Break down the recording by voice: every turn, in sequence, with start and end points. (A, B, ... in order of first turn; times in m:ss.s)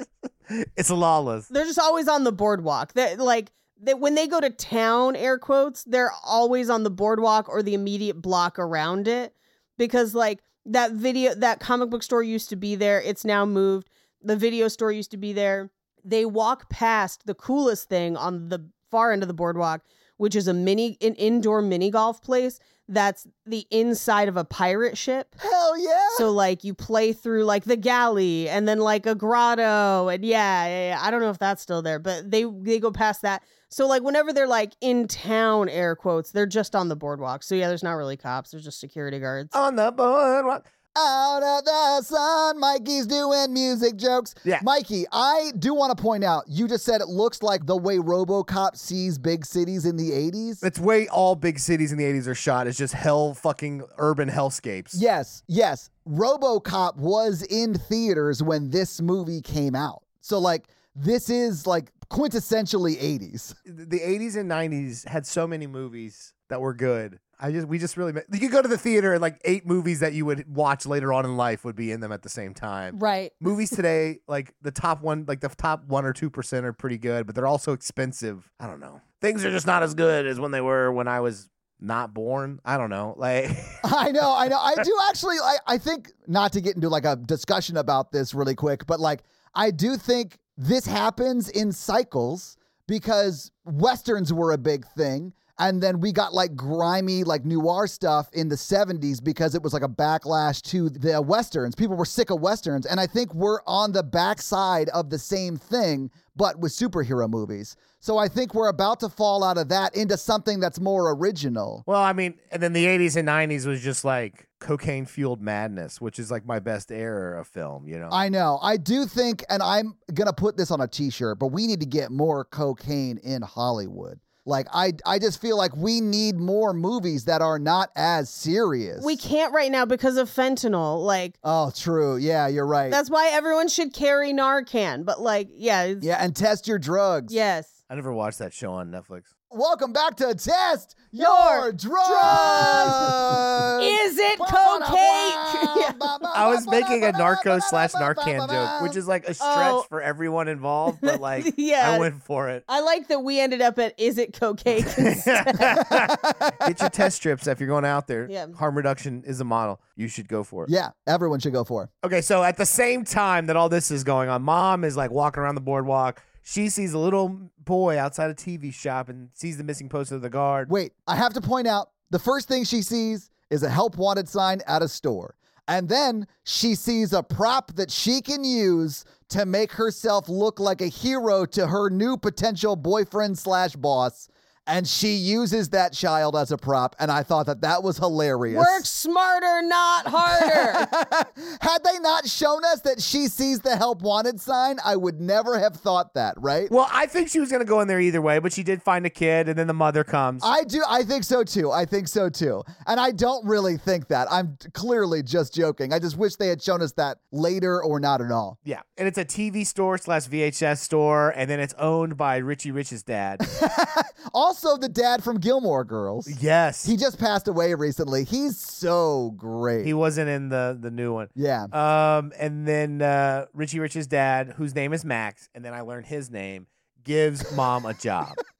0:00.5-0:01.5 A
0:01.5-0:25.3 B
0:25.4-0:26.3 C
0:26.1-0:39.5 B
0:39.5-0:40.6 A
0:40.9-0:50.6 C
0:50.6-0:55.0 A
0:54.9-1:03.6 C
1:03.7-1:23.8 A
1:12.9-1:13.3 B
1:23.8-1:51.8 C
1:51.8-1:58.2 A
1:58.1-2:09.2 C
2:09.0-2:11.3 B
2:11.4-2:13.0 C
2:12.9-2:16.1 B
2:16.0-2:17.4 C
2:17.3-2:17.7 B
2:17.9-2:19.3 A
2:19.5-2:29.0 C
2:21.2-2:23.2 B
2:23.8-2:26.0 B
2:26.3-2:32.6 A
2:29.4-2:29.8 B
2:31.0-2:32.1 B
2:32.7-2:35.8 B
2:34.9-2:40.7 A
2:35.8-2:36.9 C
2:38.3-2:38.6 B
2:40.6-2:41.9 C
2:42.0-2:50.7 A
2:50.7-3:08.8 C
3:08.5-3:10.9 B
3:10.3-3:16.7 C
3:16.7-3:20.5 A
3:20.4-3:28.6 C
3:28.6-3:33.4 A
3:33.4-3:39.9 C
3:36.3-3:36.9 A
3:39.8-3:48.4 A
3:41.4-3:41.7 C